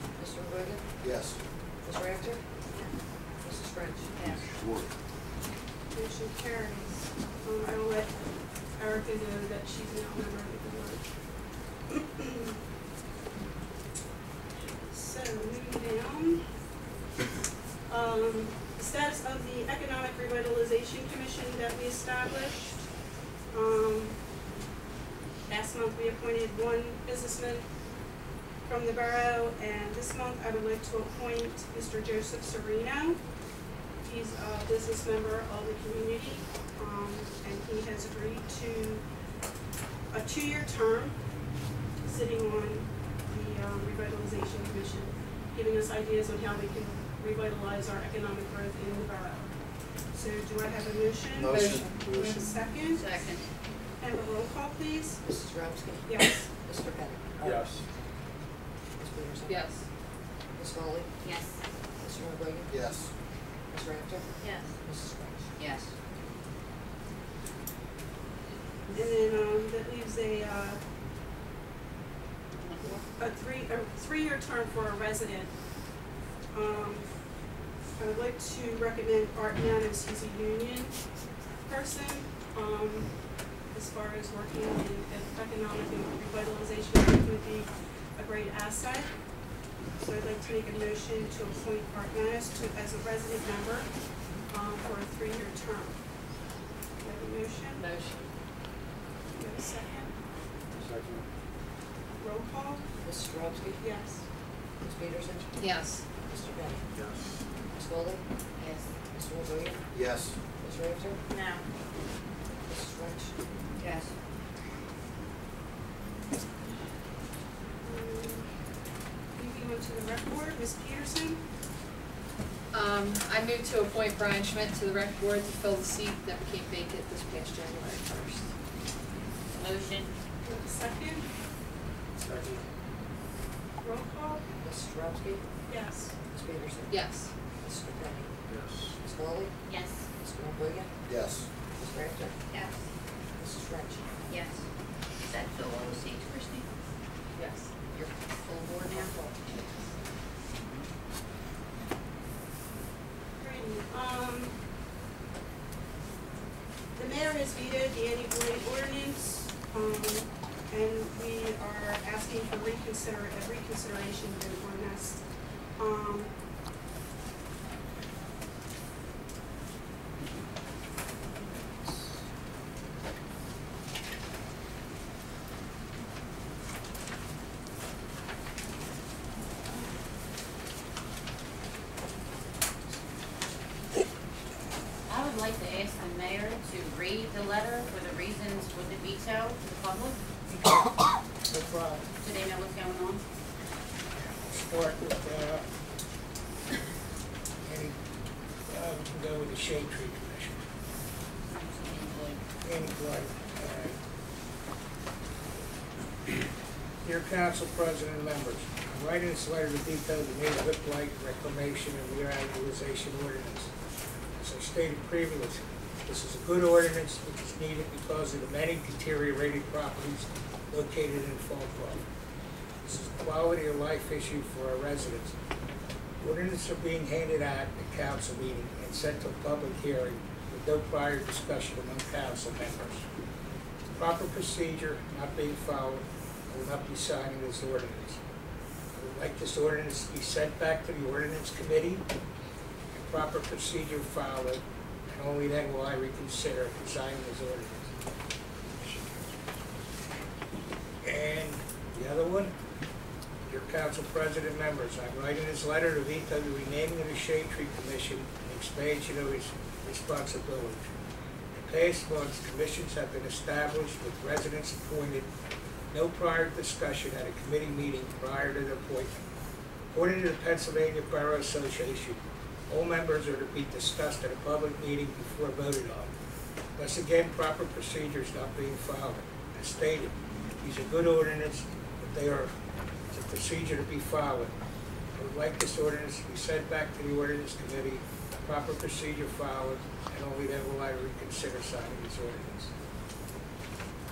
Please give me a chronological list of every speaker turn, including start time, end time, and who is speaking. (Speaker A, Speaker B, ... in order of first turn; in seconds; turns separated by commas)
Speaker A: 0.2-0.8, Speaker B: 1.0-1.4, Speaker A: 1.8-2.4, Speaker A: 3.4-4.1, Speaker C: 4.1-4.6, Speaker D: 5.9-8.1, Speaker D: 8.8-11.0, Speaker D: 11.9-12.5, Speaker D: 14.6-16.4, Speaker D: 17.9-22.9, Speaker D: 23.5-24.2, Speaker D: 25.5-27.6, Speaker D: 28.6-33.2, Speaker D: 34.0-39.0, Speaker D: 40.1-41.1, Speaker D: 42.0-49.5, Speaker D: 50.1-53.2, Speaker B: 51.4-51.9, Speaker E: 51.5-51.9, Speaker F: 51.9-52.4, Speaker C: 52.9-53.4, Speaker D: 54.0-55.2, Speaker A: 55.2-57.8, Speaker D: 56.0-56.5, Speaker F: 57.4-57.8, Speaker A: 59.0-59.7, Speaker E: 59.5-59.8, Speaker A: 60.5-61.1, Speaker C: 61.2-61.6, Speaker A: 62.0-62.8, Speaker B: 62.7-63.1, Speaker A: 63.7-65.5, Speaker C: 64.4-64.7, Speaker C: 65.6-65.9, Speaker D: 68.9-70.8, Speaker C: 72.6-73.0, Speaker D: 73.2-75.5, Speaker D: 76.5-77.1, Speaker D: 78.0-81.0, Speaker D: 81.6-83.1, Speaker D: 83.7-89.1, Speaker D: 90.0-93.9, Speaker D: 94.5-96.0, Speaker D: 97.0-97.9, Speaker E: 97.8-98.2, Speaker D: 99.3-100.1, Speaker F: 100.7-101.3, Speaker D: 102.2-102.8, Speaker A: 103.0-103.8, Speaker D: 103.8-104.2, Speaker A: 104.8-105.5, Speaker E: 105.6-106.0, Speaker A: 106.2-106.8, Speaker F: 106.9-107.4, Speaker A: 107.7-108.2, Speaker C: 108.6-109.0, Speaker A: 109.1-109.8, Speaker B: 109.9-110.3, Speaker A: 110.6-111.2, Speaker C: 111.3-111.6, Speaker A: 112.7-113.4, Speaker C: 113.8-114.1, Speaker D: 117.8-118.5, Speaker D: 119.3-121.4, Speaker E: 122.7-128.4, Speaker C: 129.5-130.1, Speaker D: 130.4-131.3, Speaker F: 132.2-132.6, Speaker D: 133.8-134.4, Speaker A: 134.6-135.4, Speaker D: 135.7-136.1, Speaker A: 136.3-137.0, Speaker E: 136.9-137.3, Speaker A: 137.6-138.3, Speaker F: 138.5-138.9, Speaker A: 139.0-139.5, Speaker C: 139.7-140.0, Speaker A: 140.2-140.9, Speaker B: 141.1-141.5, Speaker A: 141.8-142.3, Speaker C: 142.5-142.8, Speaker A: 143.4-144.2, Speaker C: 144.3-144.7, Speaker C: 145.3-146.7, Speaker E: 147.4-147.7, Speaker A: 147.9-149.5, Speaker C: 148.8-149.1, Speaker D: 153.4-154.5, Speaker D: 156.9-165.2, Speaker D: 165.8-166.3, Speaker C: 185.1-190.2, Speaker G: 191.5-192.0, Speaker C: 192.2-193.2, Speaker G: 194.1-195.6, Speaker G: 197.6-197.9, Speaker G: 198.7-200.6, Speaker C: 201.5-202.4, Speaker G: 202.6-203.9, Speaker G: 207.0-213.7, Speaker G: 214.4-222.0, Speaker G: 222.8-225.3, Speaker G: 226.2-233.1, Speaker G: 233.9-238.2, Speaker G: 238.9-242.0, Speaker G: 242.9-247.9, Speaker G: 251.0-252.5, Speaker G: 253.4-260.9, Speaker G: 261.5-265.3, Speaker G: 265.9-269.2, Speaker G: 269.9-276.1, Speaker G: 276.8-282.5, Speaker G: 283.1-284.5, Speaker G: 285.2-292.7